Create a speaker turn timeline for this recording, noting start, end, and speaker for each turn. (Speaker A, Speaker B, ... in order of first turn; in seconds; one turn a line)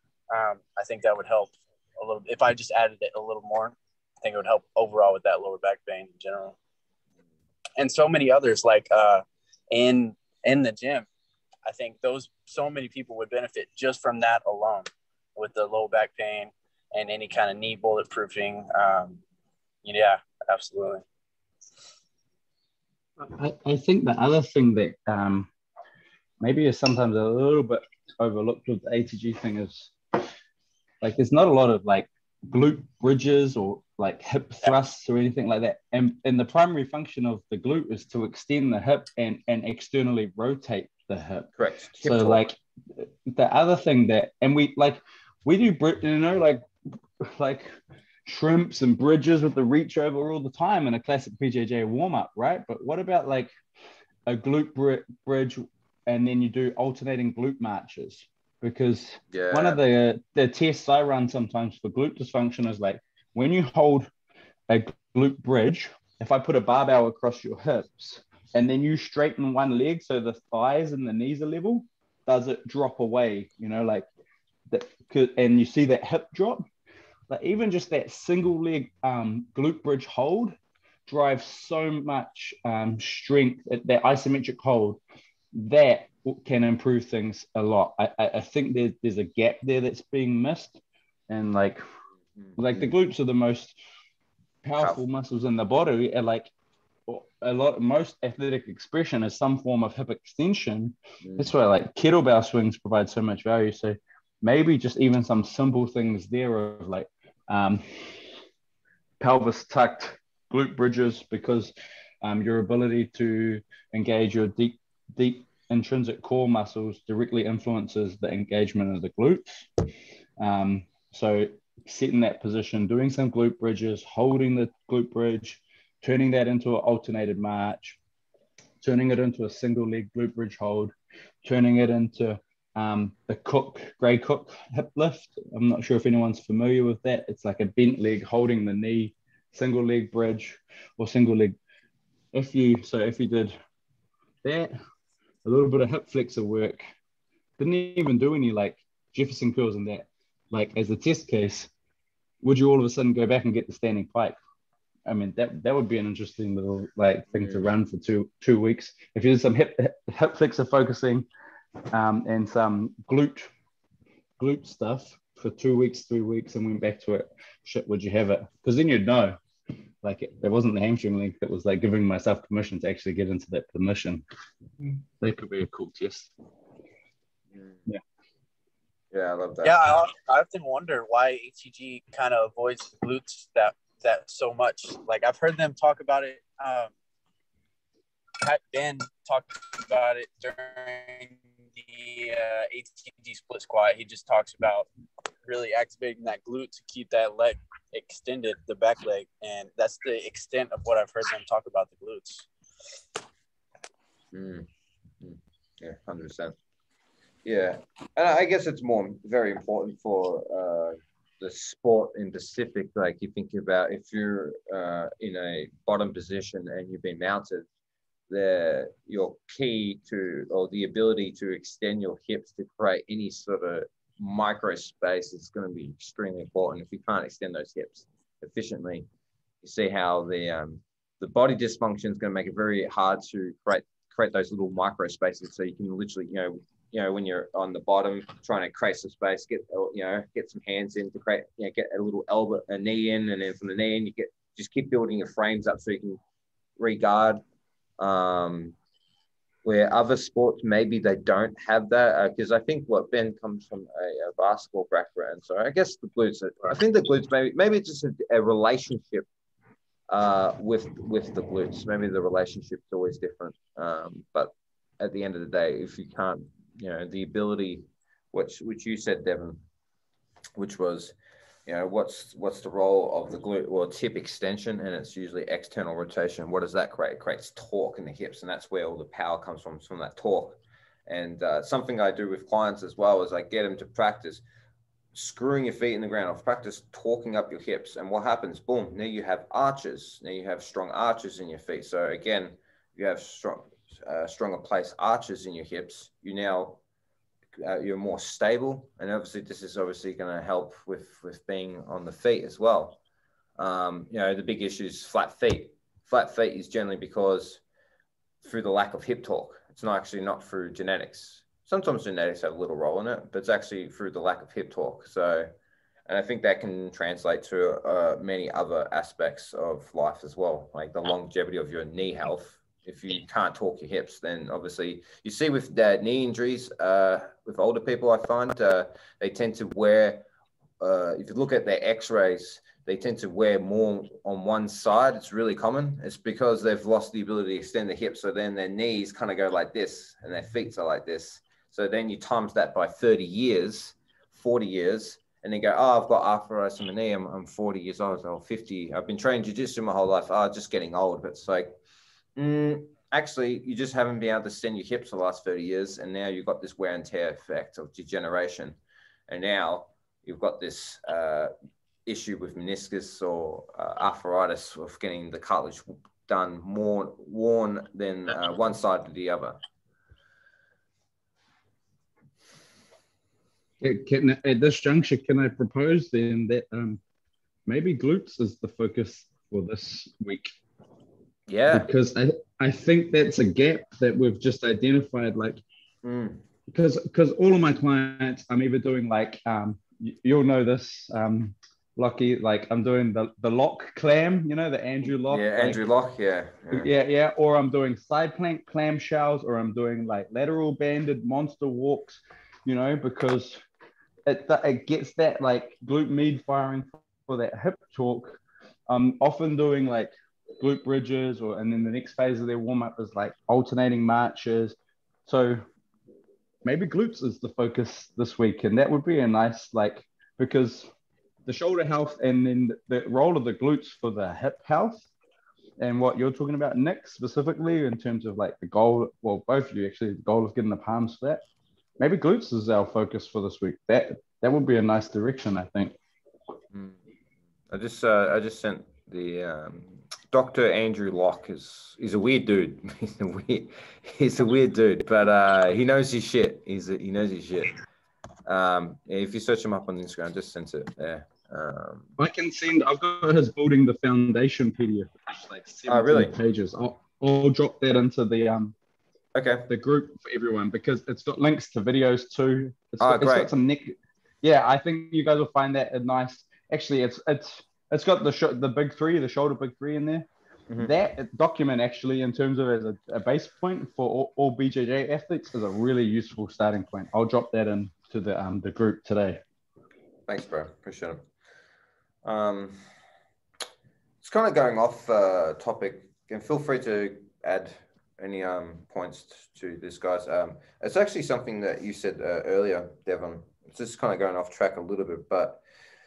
Speaker A: 0.3-6.6
Speaker A: 7.8-11.1
Speaker A: 11.7-19.2
Speaker A: 19.8-21.0
Speaker B: 23.2-25.5
Speaker B: 26.4-30.2
Speaker B: 31.0-41.5
Speaker C: 41.6-42.4
Speaker B: 42.0-46.6
Speaker B: 47.2-47.7
Speaker B: 48.3-53.5
Speaker B: 54.3-64.1
Speaker C: 59.3-59.8
Speaker B: 64.7-74.1
Speaker B: 74.7-76.7
Speaker B: 77.3-85.0
Speaker B: 85.5-91.8
Speaker B: 92.6-93.8
Speaker B: 94.6-96.5
Speaker B: 97.1-108.3
Speaker C: 101.2-101.5
Speaker B: 109.2-119.7
Speaker B: 120.4-128.0
Speaker B: 128.8-130.9
Speaker B: 131.4-141.6
Speaker B: 142.3-143.5
Speaker B: 144.4-144.7
Speaker B: 145.4-146.8
Speaker B: 147.6-151.7
Speaker B: 152.4-154.4
Speaker B: 155.1-161.3
Speaker C: 157.3-157.7
Speaker B: 161.9-163.5
Speaker B: 164.4-169.4
Speaker B: 170.0-174.2
Speaker B: 175.2-176.3
Speaker C: 179.1-179.8
Speaker A: 179.6-186.9
Speaker A: 188.4-194.9
Speaker A: 195.4-202.5
Speaker C: 204.3-204.7
Speaker C: 205.2-206.6
Speaker C: 207.4-217.7
Speaker C: 218.3-229.1
Speaker C: 229.6-246.2
Speaker C: 246.8-247.4
Speaker C: 248.0-248.8
Speaker C: 249.6-259.3
Speaker C: 260.1-269.6
Speaker C: 270.6-271.1
Speaker C: 271.7-284.4
Speaker C: 285.1-296.8
Speaker C: 297.6-303.0
Speaker C: 303.6-307.6
Speaker C: 308.4-315.5
Speaker C: 316.1-330.2
Speaker C: 330.8-351.8
Speaker C: 352.4-358.8
Speaker C: 359.3-361.5
Speaker C: 362.1-369.6
Speaker B: 373.8-377.0
Speaker B: 377.7-380.5
Speaker C: 381.5-381.9
Speaker B: 381.7-385.6
Speaker C: 386.0-386.4
Speaker B: 386.7-395.8
Speaker C: 395.3-396.9
Speaker B: 396.7-403.6
Speaker B: 404.3-415.6
Speaker B: 416.6-420.9
Speaker B: 421.5-425.1
Speaker B: 425.8-431.4
Speaker B: 432.0-436.0
Speaker C: 436.7-437.0
Speaker C: 437.7-447.8
Speaker C: 448.5-452.1
Speaker B: 452.2-458.8
Speaker C: 455.9-456.3
Speaker C: 459.3-459.7
Speaker B: 459.7-470.3
Speaker C: 463.0-463.5
Speaker C: 470.7-470.9
Speaker B: 470.8-479.4
Speaker C: 480.3-481.2
Speaker C: 482.2-482.8
Speaker C: 484.2-495.6